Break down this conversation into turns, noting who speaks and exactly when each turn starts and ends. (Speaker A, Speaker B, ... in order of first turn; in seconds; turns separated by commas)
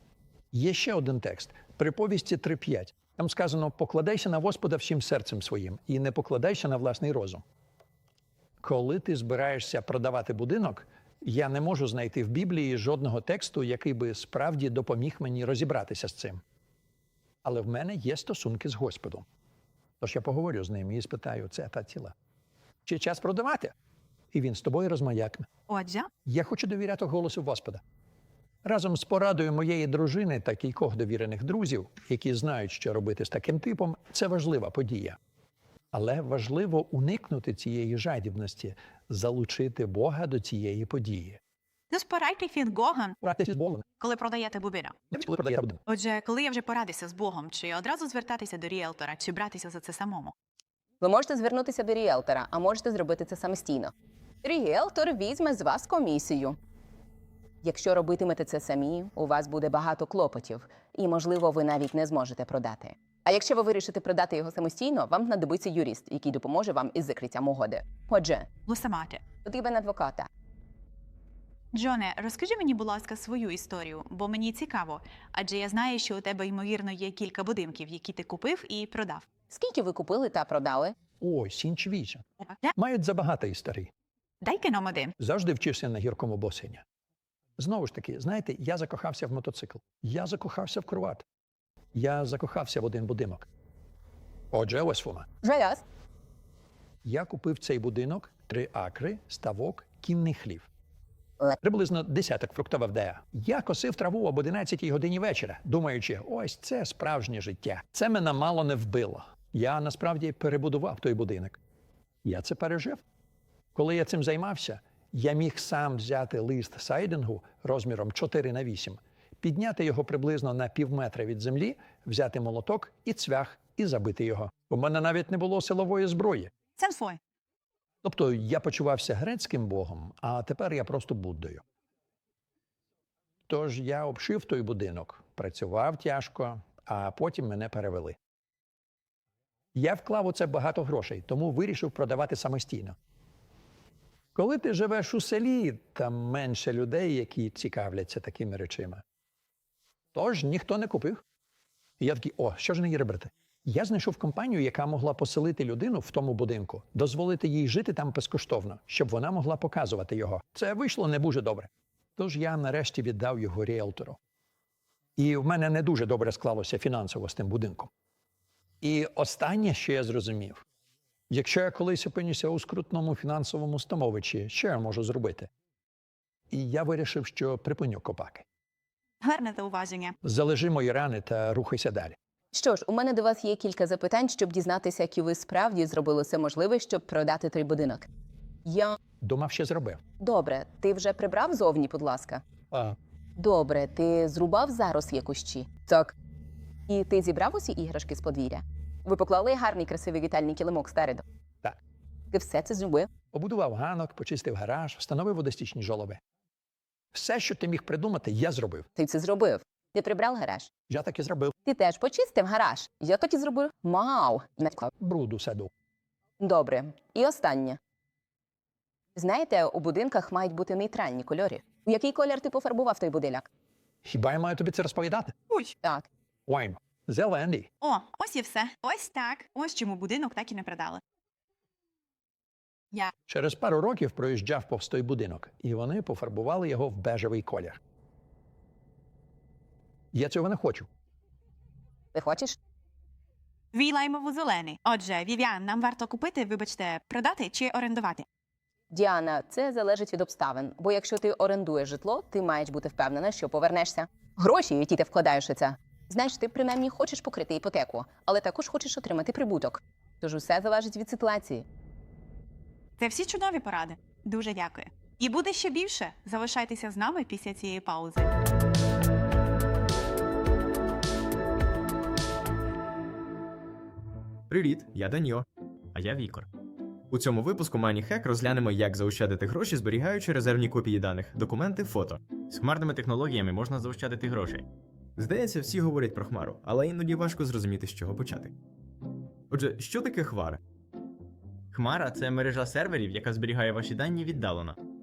Speaker A: 0.5-7.4, Speaker A: 8.6-16.4, Speaker A: 17.4-19.2, Speaker A: 20.0-22.1, Speaker A: 22.9-23.7, Speaker A: 24.3-25.4, Speaker B: 25.7-26.1, Speaker A: 26.2-27.8, Speaker A: 28.6-35.2, Speaker A: 35.9-41.4, Speaker B: 41.9-43.2, Speaker A: 43.2-43.8, Speaker B: 44.0-45.0, Speaker A: 45.1-45.8, Speaker B: 45.9-50.3, Speaker C: 51.0-56.6, Speaker C: 57.6-68.5, Speaker B: 68.7-69.2, Speaker C: 69.4-70.3, Speaker B: 71.7-79.2, Speaker C: 79.5-81.0, Speaker A: 81.2-83.9, Speaker B: 84.4-85.1, Speaker A: 85.2-86.8, Speaker A: 87.6-91.2, Speaker A: 91.9-93.5, Speaker A: 94.5-95.3, Speaker C: 95.4-95.8, Speaker A: 97.0-100.7, Speaker A: 101.6-111.6, Speaker A: 112.2-113.0, Speaker A: 113.7-126.5, Speaker B: 126.8-127.2, Speaker A: 128.0-131.6, Speaker A: 133.5-138.2, Speaker A: 139.7-142.9, Speaker A: 144.3-149.0, Speaker A: 150.1-151.2, Speaker A: 152.0-164.2, Speaker A: 165.2-167.9, Speaker A: 168.8-170.6, Speaker A: 171.3-175.5, Speaker A: 176.5-178.4, Speaker B: 179.2-180.2, Speaker A: 180.2-182.2, Speaker C: 182.5-188.1, Speaker C: 188.6-189.0, Speaker A: 189.2-190.0, Speaker C: 190.2-192.4, Speaker A: 192.7-192.9, Speaker C: 193.4-196.1, Speaker C: 196.9-201.2, Speaker C: 202.3-203.1, Speaker A: 203.3-206.2, Speaker A: 207.1-208.9, Speaker C: 208.9-210.7, Speaker A: 210.9-211.5, Speaker C: 211.6-214.9, Speaker A: 214.9-215.7, Speaker C: 216.4-217.8, Speaker C: 219.2-223.5, Speaker A: 224.0-225.3, Speaker B: 225.5-225.7, Speaker C: 225.8-226.1, Speaker A: 226.5-227.7, Speaker B: 227.8-231.0, Speaker A: 233.3-237.8, Speaker A: 240.1-240.9, Speaker C: 242.1-242.6, Speaker B: 243.7-248.2, Speaker C: 248.9-261.6, Speaker B: 263.0-268.3, Speaker D: 274.5-276.5, Speaker D: 277.1-288.5, Speaker D: 289.5-290.6, Speaker D: 291.7-294.8